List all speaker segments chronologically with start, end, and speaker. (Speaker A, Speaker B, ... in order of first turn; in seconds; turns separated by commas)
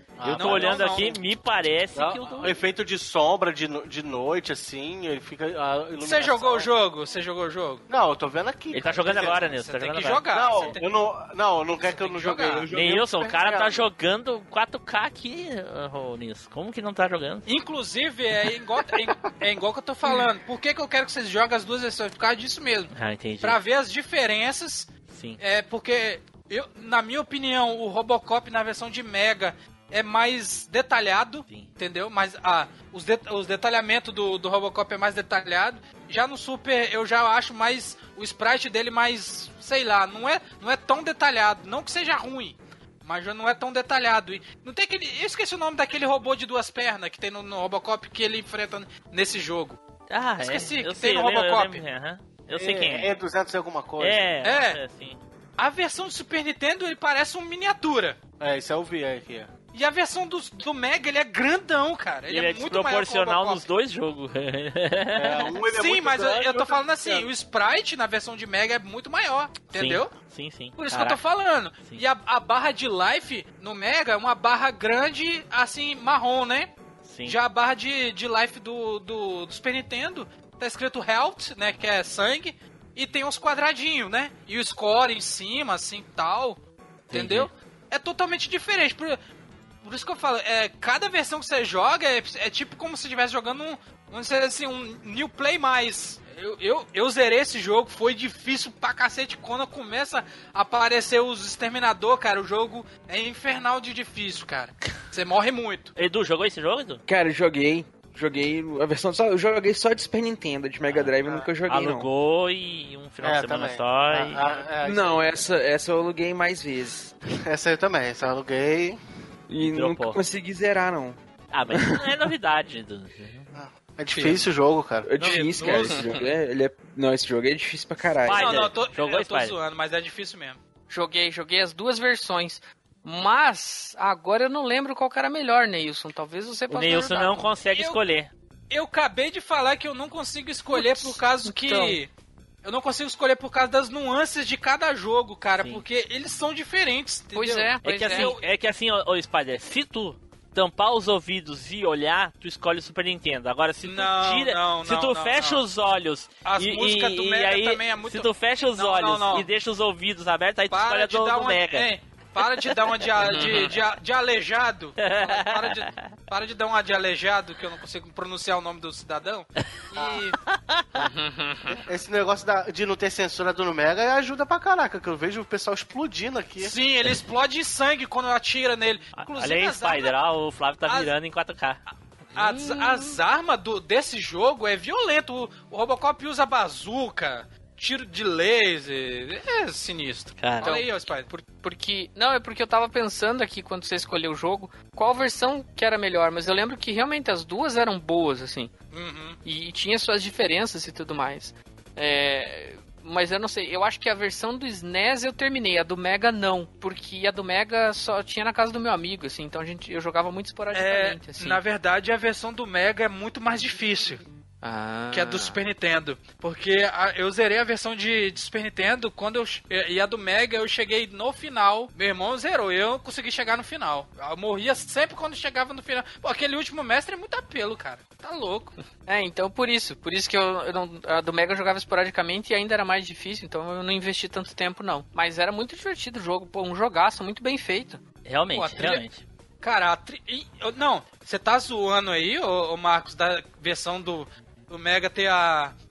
Speaker A: 0.2-1.2, Speaker B: 0.2-2.6, Speaker C: 0.3-1.2, Speaker A: 1.9-6.7, Speaker C: 6.0-7.8, Speaker A: 7.9-9.5, Speaker B: 8.7-10.2, Speaker C: 9.4-10.8, Speaker A: 10.3-13.9, Speaker C: 11.8-12.7, Speaker B: 12.7-17.4, Speaker C: 17.5-49.8, Speaker B: 22.9-23.6, Speaker B: 25.1-25.4, Speaker B: 50.1-53.1, Speaker C: 50.4-51.8, Speaker A: 52.6-54.3, Speaker B: 54.0-55.2, Speaker C: 54.4-54.8, Speaker C: 55.6-58.2, Speaker A: 58.4-59.5, Speaker C: 59.7-63.7, Speaker B: 62.3-65.6, Speaker A: 65.1-66.6, Speaker C: 65.7-70.1, Speaker D: 66.6-67.3, Speaker B: 69.7-71.2, Speaker C: 70.8-76.7, Speaker B: 77.0-77.4, Speaker C: 77.3-89.2, Speaker B: 87.1-87.5, Speaker C: 89.8-105.9, Speaker B: 106.0-107.0, Speaker D: 107.1-112.1, Speaker B: 111.7-114.4, Speaker A: 113.2-115.3, Speaker D: 114.8-117.2, Speaker A: 117.5-119.0, Speaker D: 119.5-121.2, Speaker B: 119.6-120.2, Speaker B: 121.5-123.5, Speaker D: 121.7-122.1, Speaker A: 123.5-125.2, Speaker C: 124.1-124.4, Speaker D: 125.0-128.6, Speaker B: 125.2-126.2, Speaker C: 125.2-126.1, Speaker E: 125.9-126.2, Speaker B: 128.2-129.6, Speaker C: 128.3-130.6, Speaker E: 130.9-137.5, Speaker B: 136.7-138.3, Speaker C: 137.7-138.0, Speaker C: 138.7-142.1, Speaker E: 140.7-142.0, Speaker C: 142.6-148.5, Speaker B: 145.6-145.8, Speaker E: 147.3-148.3, Speaker B: 147.8-161.9, Speaker C: 153.8-155.6, Speaker C: 156.4-159.5, Speaker C: 160.7-170.4, Speaker E: 163.2-163.8, Speaker B: 165.0-166.1, Speaker B: 169.6-171.0, Speaker E: 170.9-171.8, Speaker A: 171.7-176.7, Speaker C: 176.6-180.1, Speaker B: 179.2-181.8, Speaker C: 180.9-181.1, Speaker E: 182.3-183.2, Speaker C: 182.3-191.3, Speaker B: 190.4-190.8, Speaker E: 190.6-198.7, Speaker C: 198.9-199.4, Speaker E: 199.4-211.6, Speaker C: 210.7-214.2, Speaker E: 214.6-215.6, Speaker C: 215.1-228.7, Speaker E: 229.1-238.0, Speaker B: 238.2-239.2, Speaker C: 238.5-239.0, Speaker C: 239.6-245.8